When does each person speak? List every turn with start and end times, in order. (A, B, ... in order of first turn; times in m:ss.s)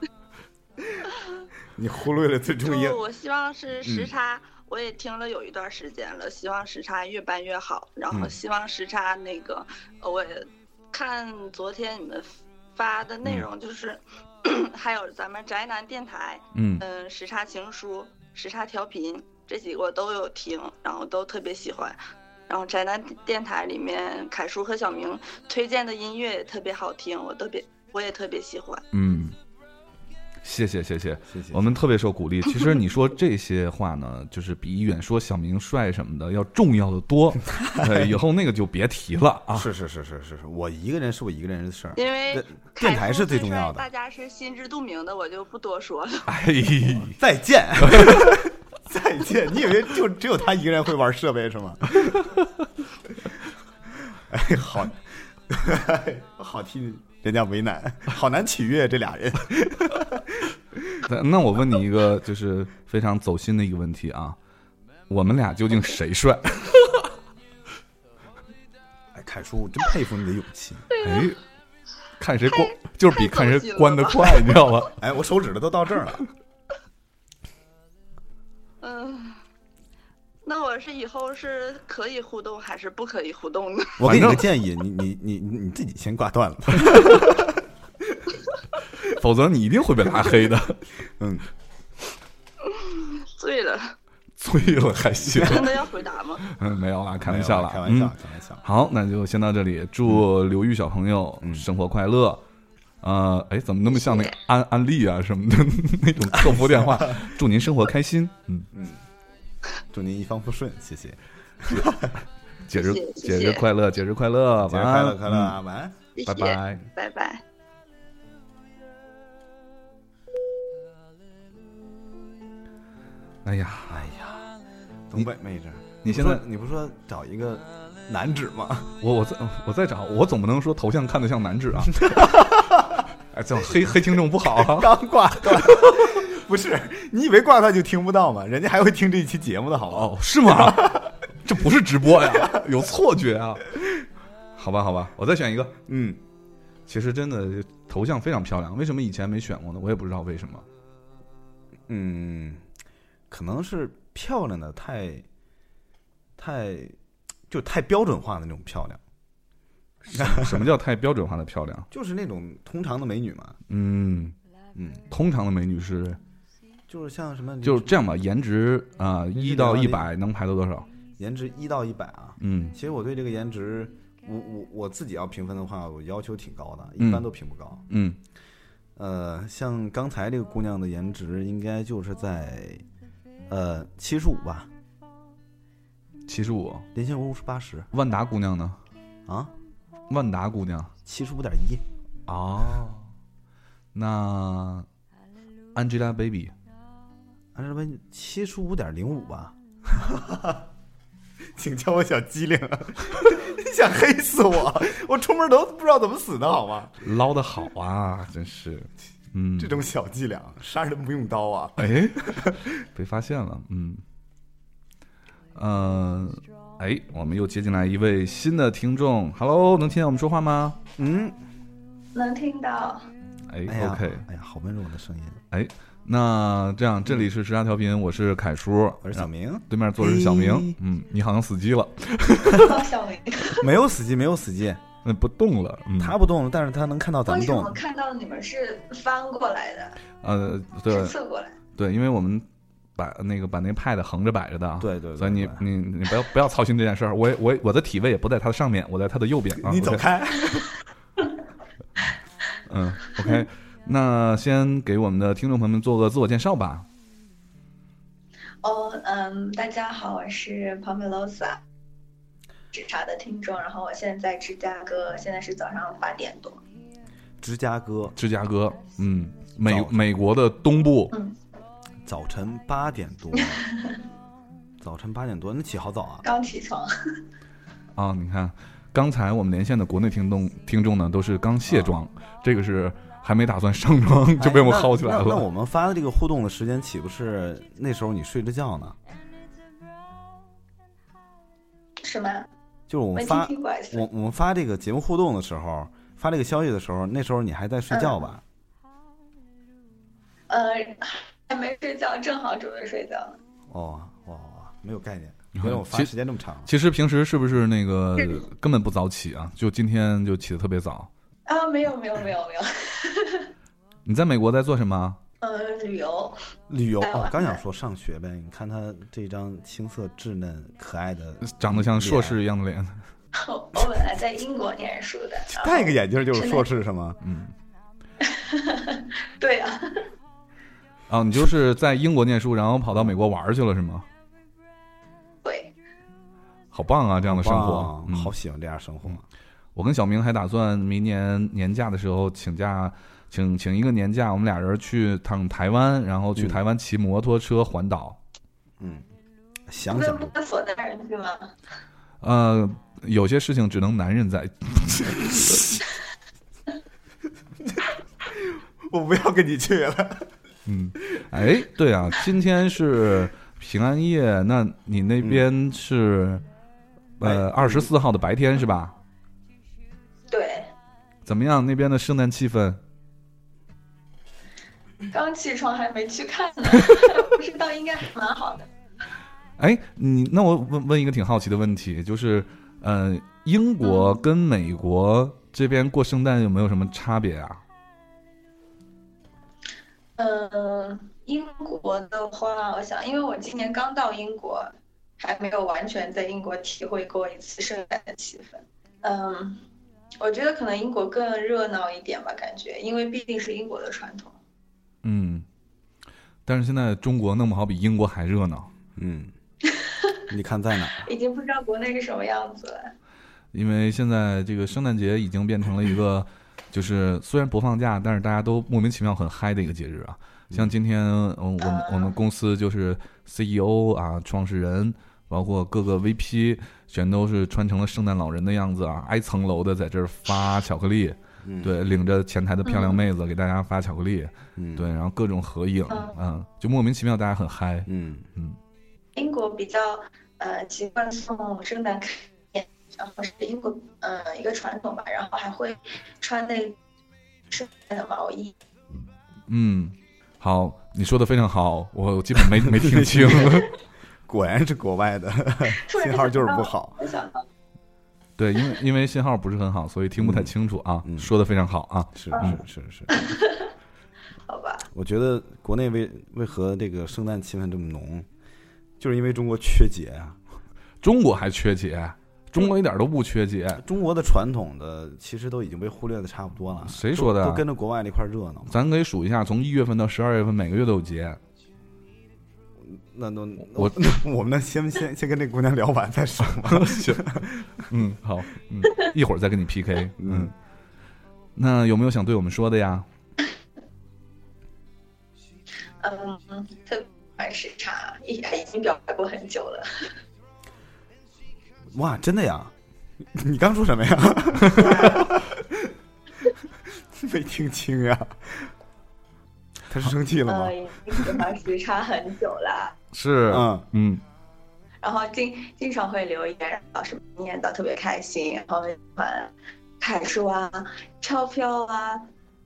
0:01.8-0:03.0 A
0:02.6-0:28.8 B
0:03.8-0:04.1 A
0:16.5-0:16.8 C
0:28.9-0:29.4 C
0:30.4-0:39.7 C
0:31.3-0:31.7 A
0:37.8-0:38.2 A
0:39.5-0:43.9 A
0:42.0-0:46.3 B
0:46.3-0:47.2 C
0:47.2-0:52.2 A
0:47.8-0:48.4 C
0:54.1-1:00.4 A
1:01.1-1:04.4 C
1:05.1-1:07.0 C
1:09.1-1:10.8 A
1:10.9-1:11.4 B
1:11.0-1:11.4 C
1:12.2-1:14.9 C
1:12.5-1:14.6 B
1:15.0-1:16.2 A
1:18.8-1:19.4 B
1:20.4-1:24.0 B
1:24.0-1:27.6 A
1:24.0-1:24.5 C
1:29.1-1:30.8 C
1:31.2-1:31.5 A
1:32.7-1:34.0 B
1:34.4-1:35.8 C
1:34.6-1:35.6 A
1:35.4-1:36.4 B
1:36.4-1:42.4 C
1:37.2-1:38.6 A
1:43.0-1:48.7 C
1:43.9-1:44.4 B
1:46.4-1:47.2 A
1:48.7-1:49.0 A
1:49.9-1:52.1 A
1:52.7-1:55.6 C
1:52.7-1:53.7 B
1:54.6-1:56.0 A
1:56.2-1:57.4 B
1:56.2-1:56.8 C
2:03.4-2:04.0 C
2:03.9-2:04.5 A
2:05.1-2:09.0 A
2:06.0-2:06.4 C
2:09.0-2:12.1 C
2:12.0-2:13.0 A
2:13.3-2:14.9 C
2:14.4-2:21.1 A
2:15.5-2:16.0 C
2:19.9-2:23.6 C
2:24.6-2:25.8 C
2:25.9-2:26.2 A
2:26.9-2:30.6 C
2:31.9-2:32.6 A
2:33.3-2:35.3 A
2:36.4-2:37.0 A
2:37.5-2:39.0 A
2:40.1-2:40.6 A
2:40.1-2:41.9 C
2:41.9-2:43.6 A
2:43.7-2:44.4 C
2:44.8-2:45.0 A
2:45.1-2:46.2 C
2:46.9-2:48.0 A
2:47.6-2:50.9 C
2:49.3-2:50.1 A
2:51.2-2:57.8 A
2:52.4-2:52.8 C
2:57.0-2:57.2 C
2:57.9-2:58.2 C
2:59.0-3:02.8 A
3:03.5-3:04.7 A
3:06.3-3:06.9 C
3:06.9-3:07.9 A
3:07.9-3:08.8 C
3:09.3-3:09.5 A
3:10.1-3:10.9 C
3:11.0-3:11.8 A
3:12.3-3:13.1 C
3:13.9-3:14.9 C
3:15.8-3:16.5 C
3:17.6-3:20.6 A
3:21.6-3:27.0 A
3:27.0-3:29.8 C
3:29.6-3:32.6 A
3:31.8-3:34.0 C
3:35.6-3:40.8 C
3:41.0-3:41.4 A
3:42.1-3:43.1 D
3:43.5-3:44.2 C
3:43.7-3:45.4 A
3:45.5-3:52.8 C
3:49.0-3:50.8 A
3:52.6-3:53.7 D
3:53.6-3:54.8 A
3:55.0-3:56.2 C
3:56.0-3:57.8 A
3:57.3-4:00.0 D
4:00.2-4:01.2 C
4:00.9-4:01.6 D
4:01.8-4:02.4 C
4:03.0-4:10.0 C
4:04.8-4:05.6 A
4:09.6-4:10.7 A
4:12.7-4:16.9 C
4:18.6-4:21.6 D
4:22.7-4:26.6 D
4:27.4-4:28.1 A
4:28.2-4:31.1 C
4:29.6-4:30.0 A
4:31.1-4:31.4 D
4:32.0-4:33.6 A
4:33.4-4:34.0 D
4:34.8-4:36.3 A
4:36.2-4:36.9 D
4:38.0-4:45.5 C
4:41.7-4:42.0 A
4:44.4-4:49.0 A
4:52.0-4:52.5 D
4:52.9-4:58.4 A
4:53.2-4:54.1 D
4:57.9-4:58.3 D
5:00.5-5:03.4 D
5:03.7-5:06.7 A
5:05.6-5:06.1 C
5:06.7-5:11.1 C
5:11.5-5:13.5 D
5:14.1-5:15.2 C
5:15.4-5:16.4 D
5:16.7-5:22.4 A
5:17.0-5:17.6 D
5:21.4-5:23.0 C
5:23.4-5:26.7 D
5:25.5-5:27.2 A
5:27.2-5:27.5 C
5:28.3-5:30.0 D
5:31.1-5:34.1 C
5:35.4-5:35.7 D
5:36.7-5:38.3 C
5:37.2-5:39.2 A
5:39.8-5:48.2 C
5:48.8-5:49.0 A
5:49.7-5:50.3 A
5:49.9-5:51.5 D
5:52.2-5:55.6 C
5:58.5-6:00.3 A
6:00.7-6:06.4 C
6:07.2-6:09.0 C
6:07.2-6:07.9 A
6:10.3-6:10.7 D
6:11.2-6:12.8 C
6:15.1-6:18.7 D
6:19.6-6:27.6 C
6:30.2-6:39.6 D
6:40.2-6:44.4 D
6:45.0-6:45.4 C
6:46.5-6:48.7 C
6:49.0-6:49.3 A
6:49.7-6:50.1 D
6:50.3-6:51.1 A
6:51.0-6:52.9 D
6:53.5-7:18.6 C
7:01.6-7:02.1 D
7:11.4-7:11.8 A
7:12.6-7:13.0 D
7:14.6-7:14.9 A
7:17.9-7:18.3 A
7:19.2-7:26.8 D
7:27.5-7:28.5 D
7:29.5-7:33.7 C
7:32.6-7:33.7 A
7:34.3-7:37.0 A
7:35.8-7:37.4 D
7:38.4-7:42.6 C
7:40.2-7:40.5 A
7:41.0-7:41.3 A
7:42.2-7:43.1 A
7:43.1-7:43.7 D
7:44.5-7:44.9 D
7:44.9-7:48.3 A
7:49.0-7:50.4 A
7:51.0-7:53.8 C
7:53.8-7:58.8 A
7:56.8-7:57.6 C
7:58.7-8:01.4 C
8:02.8-8:07.6 A
8:06.6-8:07.2 C
8:07.9-8:10.5 C
8:10.2-8:10.5 A
8:11.6-8:13.1 C
8:16.0-8:20.1 D
8:21.9-8:22.7 A
8:23.3-8:25.8 A
8:24.7-8:25.3 D
8:27.1-8:28.7 A
8:29.9-8:30.8 A
8:30.5-8:33.0 D
8:33.1-8:34.2 C
8:33.5-8:33.9 A
8:35.0-8:42.3 D